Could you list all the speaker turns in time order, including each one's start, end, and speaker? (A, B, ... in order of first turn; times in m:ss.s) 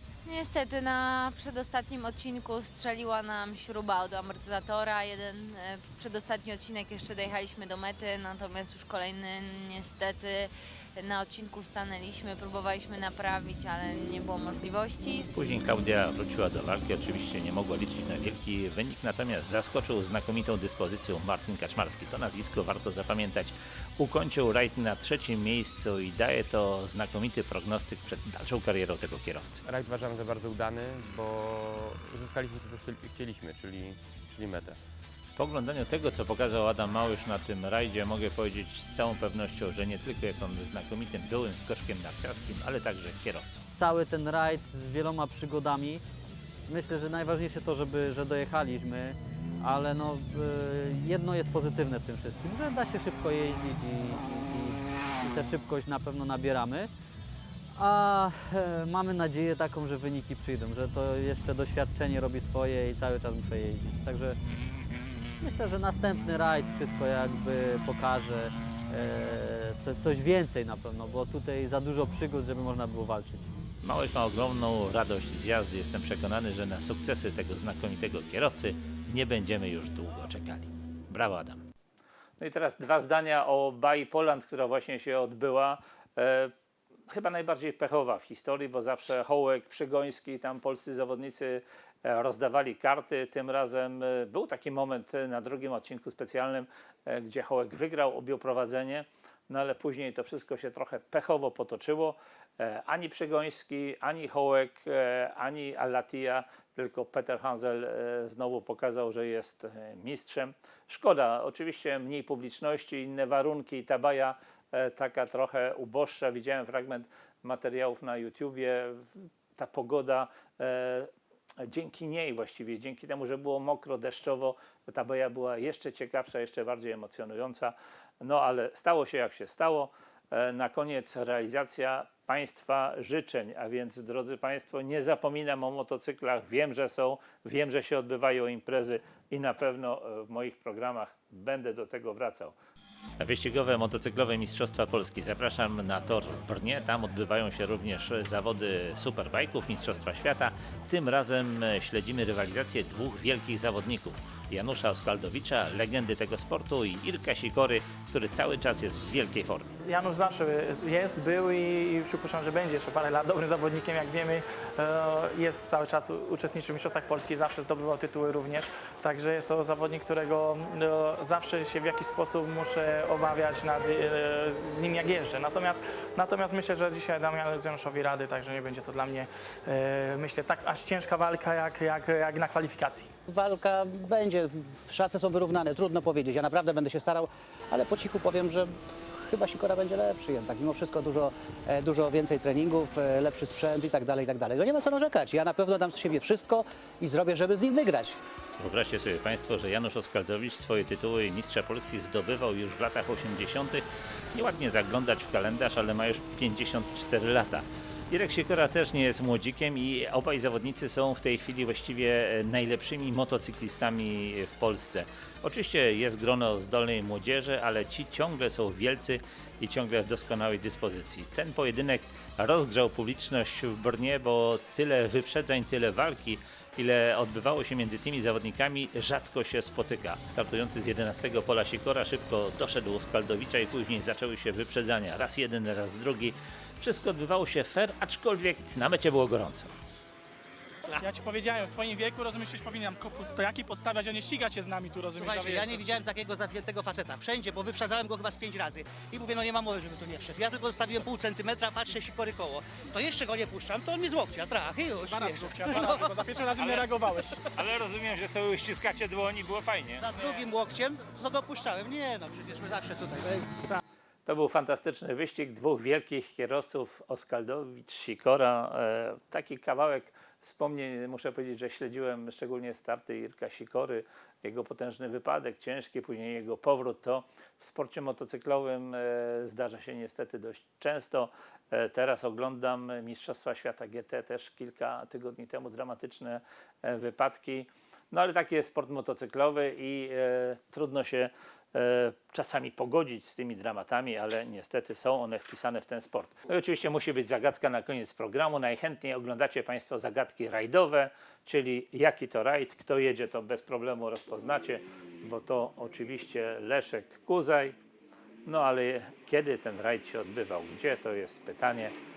0:00.3-0:15.2 A
0:15.3-0:29.6 B
0:29.6-0:34.8 C
0:35.4-0:43.7 B
0:43.7-0:46.0 D
0:46.7-0:56.9 D
0:57.8-1:04.4 D
1:05.4-1:13.5 D
1:13.8-1:21.6 B
1:22.4-1:26.5 B
1:27.1-2:22.5 B
2:23.2-2:39.7 B
2:39.8-3:03.1 E
3:03.3-3:18.2 F
3:18.6-3:59.7 B
4:01.0-4:05.8 G
4:05.1-4:16.8 H
4:15.0-4:17.5 G
4:16.6-4:16.9 B
4:17.6-4:20.1 B
4:20.0-4:23.7 H
4:24.3-5:07.8 B
5:08.5-5:12.0 B